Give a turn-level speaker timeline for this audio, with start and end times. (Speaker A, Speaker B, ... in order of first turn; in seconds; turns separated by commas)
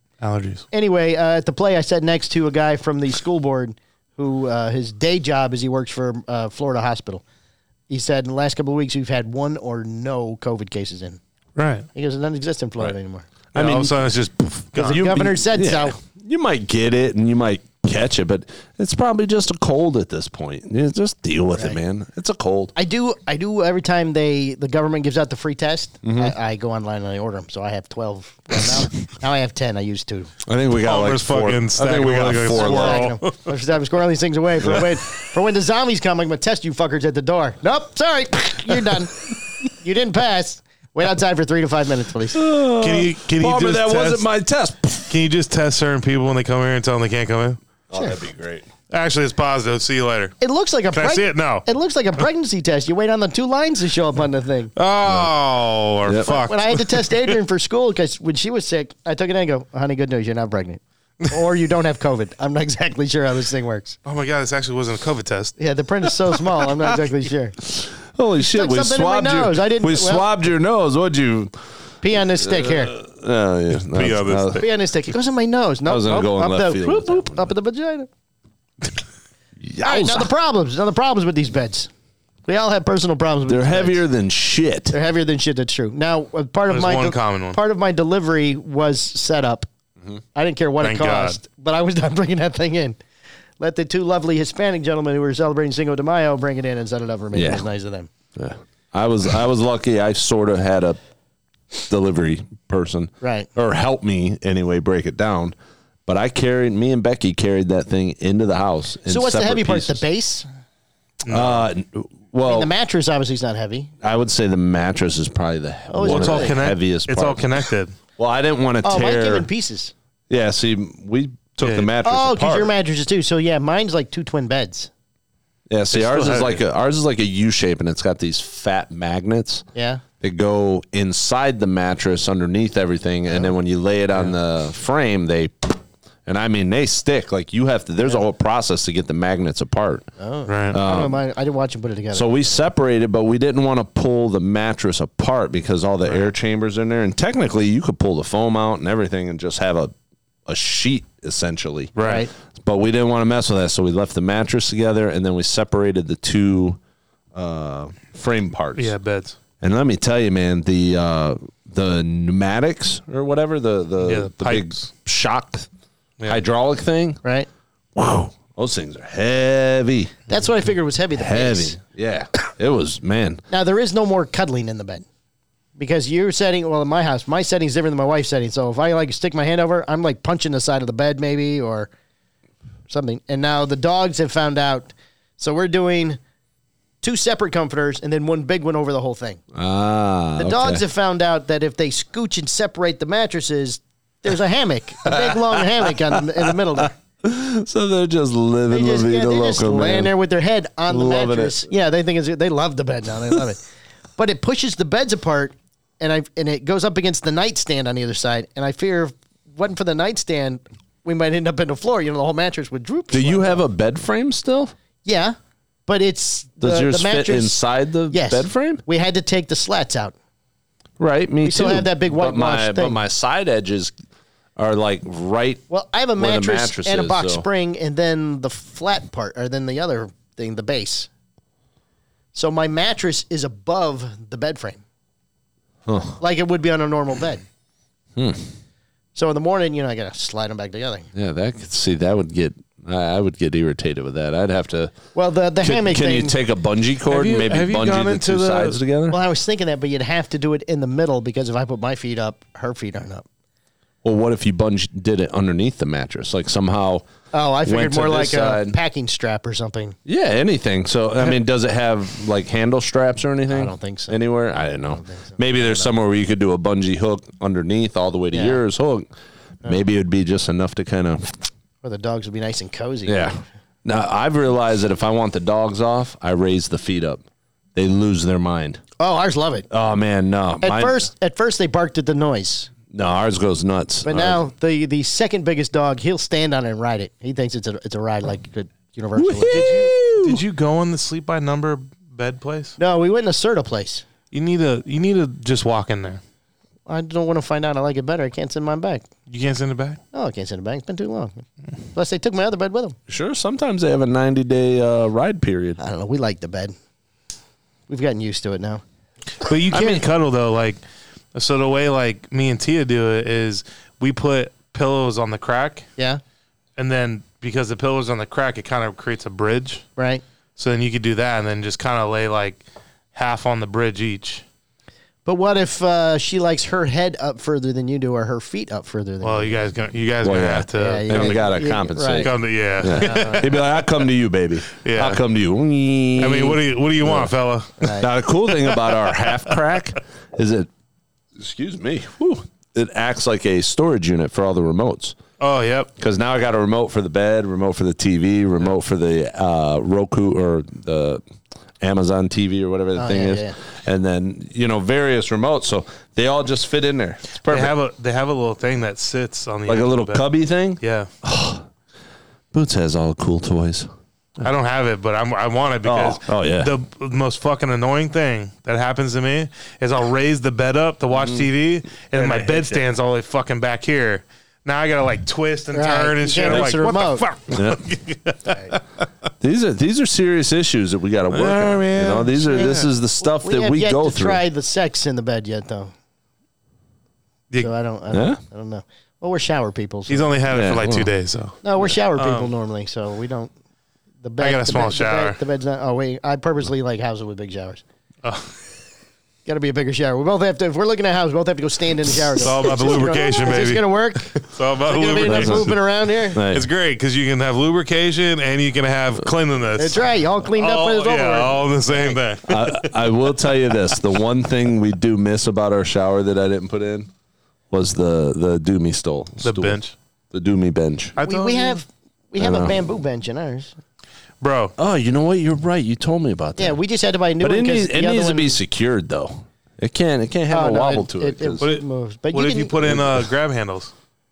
Speaker A: 0.2-0.6, Speaker B: 0.7-7.2, Speaker B: 7.9-11.2, Speaker A: 11.6-11.9, Speaker B: 11.9-13.3, Speaker A: 13.5-15.0, Speaker C: 13.6-13.9, Speaker B: 14.8-16.0, Speaker C: 14.8-22.7, Speaker B: 22.8-30.3, Speaker C: 26.0-26.4, Speaker C: 30.5-33.1, Speaker A: 30.8-33.4, Speaker B: 32.5-42.5, Speaker C: 42.3-45.1, Speaker A: 42.8-44.3, Speaker A: 45.1-47.6, Speaker C: 47.9-48.7, Speaker A: 48.9-50.4, Speaker B: 50.4-54.7, Speaker A: 50.9-51.6, Speaker A: 54.8-57.3, Speaker C: 55.1-55.3, Speaker C: 56.1-56.3, Speaker B: 56.2-64.0, Speaker A: 64.0-65.6, Speaker B: 65.6-67.6, Speaker C: 67.7-71.5, Speaker B: 68.4-70.3, Speaker B: 72.0-73.0, Speaker C: 72.4-74.6, Speaker A: 73.9-74.7, Speaker B: 74.5-78.1, Speaker C: 75.8-77.5, Speaker C: 79.6-80.3, Speaker B: 79.8-81.9, Speaker B: 82.5-84.0, Speaker C: 83.5-85.0, Speaker B: 84.9-89.7, Speaker A: 86.7-87.6, Speaker B: 90.3-93.0, Speaker A: 90.8-91.4, Speaker B: 93.6-98.1, Speaker C: 97.3-97.7, Speaker C: 98.4-101.0, Speaker C: 101.9-105.6, Speaker B: 103.2-103.5, Speaker C: 106.1-110.0, Speaker B: 109.1-110.5, Speaker A: 111.2-111.6, Speaker C: 111.3-112.7, Speaker B: 112.5-113.9, Speaker C: 114.0-117.5, Speaker B: 115.9-116.6, Speaker A: 116.0-117.9, Speaker C: 118.2-119.5, Speaker B: 118.8-119.9, Speaker C: 120.3-122.7, Speaker A: 121.6-121.9, Speaker B: 122.0-124.9, Speaker C: 125.7-129.7, Speaker A: 125.9-126.6, Speaker B: 129.8-130.0, Speaker C: 130.2-140.1, Speaker B: 140.2-142.6, Speaker A: 140.5-140.8, Speaker C: 140.7-141.2, Speaker C: 142.1-149.9, Speaker C: 150.5-152.0, Speaker A: 152.0-152.3, Speaker B: 152.0-152.3, Speaker C: 152.5-156.8, Speaker C: 157.3-158.9, Speaker A: 158.8-159.4, Speaker C: 159.6-165.7, Speaker A: 164.0-164.9, Speaker C: 166.3-167.2, Speaker C: 167.9-170.2, Speaker B: 170.3-171.8, Speaker C: 171.1-173.4, Speaker B: 173.5-175.1, Speaker B: 175.8-181.9, Speaker B: 182.9-186.2, Speaker B: 187.0-189.4, Speaker C: 189.5-190.8, Speaker B: 190.4-196.9, Speaker C: 195.1-200.1, Speaker B: 198.7-203.6, Speaker C: 200.9-201.6, Speaker B: 204.2-213.6, Speaker C: 213.1-214.7, Speaker B: 215.1-215.4, Speaker B: 215.9-220.2, Speaker C: 216.6-218.8, Speaker C: 221.0-223.9, Speaker B: 221.4-223.0, Speaker C: 224.6-225.6, Speaker B: 225.7-231.1, Speaker C: 226.2-227.5, Speaker B: 232.3-234.8, Speaker C: 235.9-236.2, Speaker B: 236.2-237.4, Speaker C: 238.2-238.4, Speaker B: 239.2-241.1, Speaker C: 241.2-245.0, Speaker B: 245.2-246.3, Speaker C: 245.6-249.2, Speaker A: 247.1-248.8, Speaker B: 249.1-253.2, Speaker C: 254.0-257.1, Speaker B: 257.3-260.0, Speaker C: 257.6-258.8, Speaker C: 260.1-269.1, Speaker B: 263.5-264.2, Speaker B: 264.9-265.9, Speaker B: 268.3-268.6, Speaker C: 269.6-271.4, Speaker B: 271.8-273.4, Speaker C: 273.1-277.2, Speaker C: 277.8-278.8, Speaker B: 279.0-279.7, Speaker C: 279.7-281.1, Speaker B: 280.6-282.7, Speaker C: 282.9-284.4, Speaker B: 284.1-289.7, Speaker C: 289.2-290.4, Speaker A: 289.5-292.8, Speaker B: 292.8-294.1, Speaker A: 294.3-296.2, Speaker B: 296.9-299.1, Speaker A: 299.3-300.0, Speaker B: 300.1-301.4, Speaker B: 301.9-303.0, Speaker C: 303.1-305.8, Speaker B: 305.8-306.8, Speaker B: 307.9-308.8, Speaker A: 309.4-310.8, Speaker C: 309.7-310.1, Speaker A: 311.4-315.9, Speaker A: 316.8-319.9, Speaker B: 320.0-320.2, Speaker A: 320.6-322.6, Speaker A: 323.1-324.4, Speaker B: 325.3-329.6, Speaker A: 329.2-331.4, Speaker C: 330.2-337.3, Speaker B: 330.8-332.3, Speaker A: 332.2-333.6, Speaker B: 332.9-333.5, Speaker A: 334.8-335.2, Speaker A: 336.2-337.8, Speaker B: 337.8-338.1, Speaker C: 337.8-340.7, Speaker C: 341.4-345.2, Speaker A: 345.4-345.9, Speaker C: 346.0-351.2, Speaker C: 351.8-357.7, Speaker B: 353.0-353.6, Speaker A: 357.5-360.2, Speaker C: 359.7-361.7, Speaker A: 360.8-361.1, Speaker C: 362.5-363.9, Speaker A: 364.4-378.8, Speaker C: 365.8-366.7, Speaker C: 371.1-371.5, Speaker C: 372.0-372.9, Speaker B: 375.7-377.2, Speaker C: 377.5-377.8, Speaker C: 379.4-384.4, Speaker A: 381.3-382.9, Speaker B: 383.2-385.9, Speaker B: 387.6-390.3, Speaker C: 388.1-388.4, Speaker A: 390.1-392.5, Speaker C: 390.5-391.1, Speaker B: 391.6-393.5, Speaker B: 394.2-397.8, Speaker A: 394.4-395.4, Speaker A: 398.2-398.5, Speaker B: 399.5-406.4, Speaker A: 402.4-405.8, Speaker C: 405.1-405.7, Speaker C: 406.4-406.7, Speaker A: 406.5-413.2, Speaker B: 409.8-412.2, Speaker C: 412.4-417.1, Speaker C: 417.7-419.8, Speaker A: 419.4-419.9, Speaker C: 420.3-421.2, Speaker A: 421.2-421.8, Speaker B: 421.2-423.8, Speaker C: 422.4-422.8, Speaker A: 424.4-424.7, Speaker C: 424.8-426.8, Speaker B: 426.6-428.6, Speaker C: 427.4-431.6, Speaker B: 430.5-432.9, Speaker A: 431.6-433.9, Speaker C: 432.8-433.2